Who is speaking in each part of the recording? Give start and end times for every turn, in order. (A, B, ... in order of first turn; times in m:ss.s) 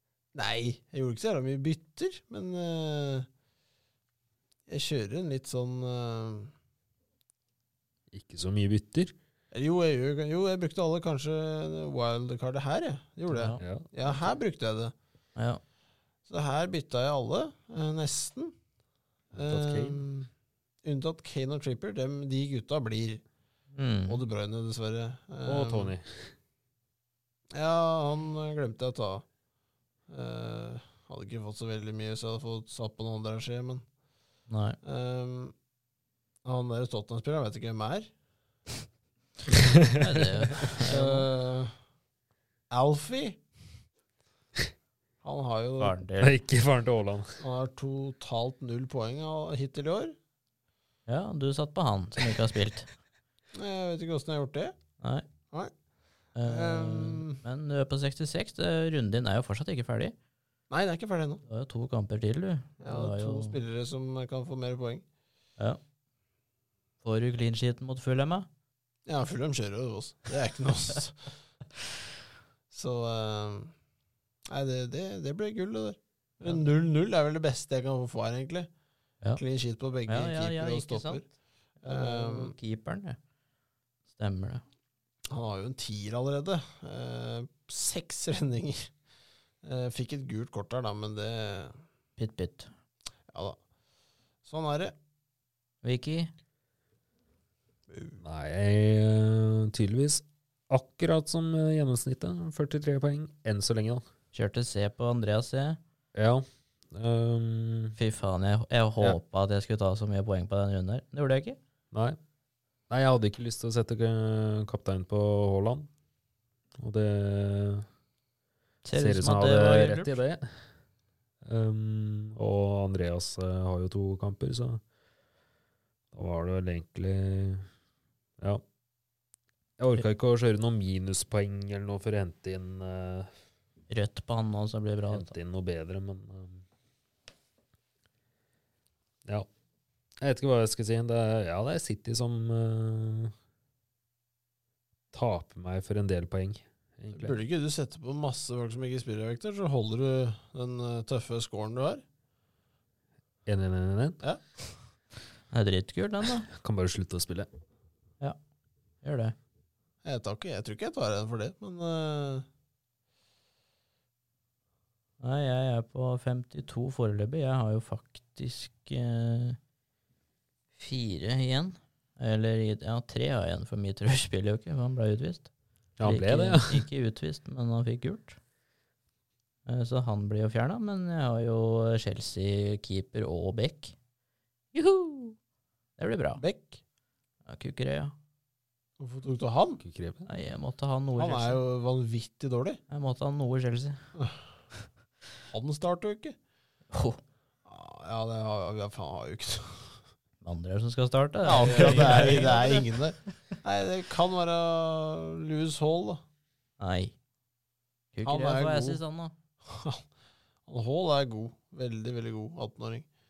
0:00.3-0:03.3 A
0:04.7-0:06.5 A
0:08.1-0:09.1 B
0:09.5-0:14.9 A
0:13.3-0:13.6 C
0:13.6-0:13.9 B
0:16.3-0:18.5 A
0:19.3-0:20.3 A
0:19.4-0:20.0 B
0:20.8-0:23.2 A
0:23.7-0:24.2 C
0:24.0-0:25.9 A
0:25.4-0:26.3 B
0:27.5-0:29.2 A
0:30.1-0:33.8 A
0:34.5-0:34.8 C
0:34.8-0:35.5 A
0:36.4-0:38.1 A
0:39.5-0:40.2 B
0:40.0-0:41.3 C
0:40.9-0:41.8 A
0:42.7-0:43.5 A
0:45.2-0:46.0 A
0:45.8-0:46.4 C
0:46.2-0:47.4 B
0:47.4-0:50.2 A
0:51.1-0:52.9 C
0:53.5-0:54.8 A
0:55.0-0:55.2 C
0:56.3-1:00.1 C
0:56.4-0:57.4 A
1:00.7-1:01.4 A
1:01.4-1:03.6 C
1:02.8-1:05.0 A
1:07.0-1:08.5 C
1:09.0-1:11.3 A
1:12.7-1:13.7 A
1:14.5-1:18.7 A
1:19.4-1:21.3 A
1:20.1-1:21.2 C
1:21.8-1:23.2 C
1:21.8-1:22.5 A
1:24.1-1:24.6 C
1:25.3-1:28.9 A
1:29.6-1:31.8 A
1:32.2-1:32.7 C
1:33.3-1:33.6 A
1:34.4-1:34.9 A
1:35.8-1:36.3 C
1:37.9-1:38.2 A
1:38.2-1:44.0 B
1:44.3-1:45.8 C
1:46.1-1:48.0 B
1:48.0-1:51.6 C
1:51.9-1:52.2 B
1:52.9-1:55.9 B
1:56.8-1:57.9 B
1:58.8-2:00.2 C
1:59.0-2:00.7 B
2:01.4-2:04.8 B
2:06.1-2:07.7 B
2:09.8-2:13.3 B
2:13.9-2:15.3 C
2:15.1-2:16.6 B
2:20.2-2:23.3 B
2:25.1-2:27.4 B
2:27.1-2:32.0 A
2:33.4-2:34.2 B
2:35.5-2:36.5 C
2:36.5-2:37.5 B
2:39.0-2:39.3 C
2:40.0-2:42.4 A
2:45.2-2:49.6 C
2:50.8-2:55.5 C
2:56.0-2:56.8 B
2:56.0-2:58.4 C
2:59.6-3:04.0 C
3:04.7-3:05.4 C
3:06.0-3:06.4 C
3:06.4-3:06.8 A
3:07.4-3:08.1 C
3:09.0-3:09.8 A
3:09.8-3:10.3 B
3:10.3-3:11.6 C
3:11.1-3:12.8 A
3:12.9-3:14.0 C
3:14.1-3:14.4 A
3:15.5-3:16.4 A
3:16.9-3:17.2 C
3:17.6-3:20.0 A
3:20.4-3:22.8 C
3:21.4-3:26.2 A
3:26.8-3:27.2 C
3:28.1-3:29.3 C
3:28.2-3:29.0 A
3:29.6-3:30.0 A
3:30.7-3:33.1 A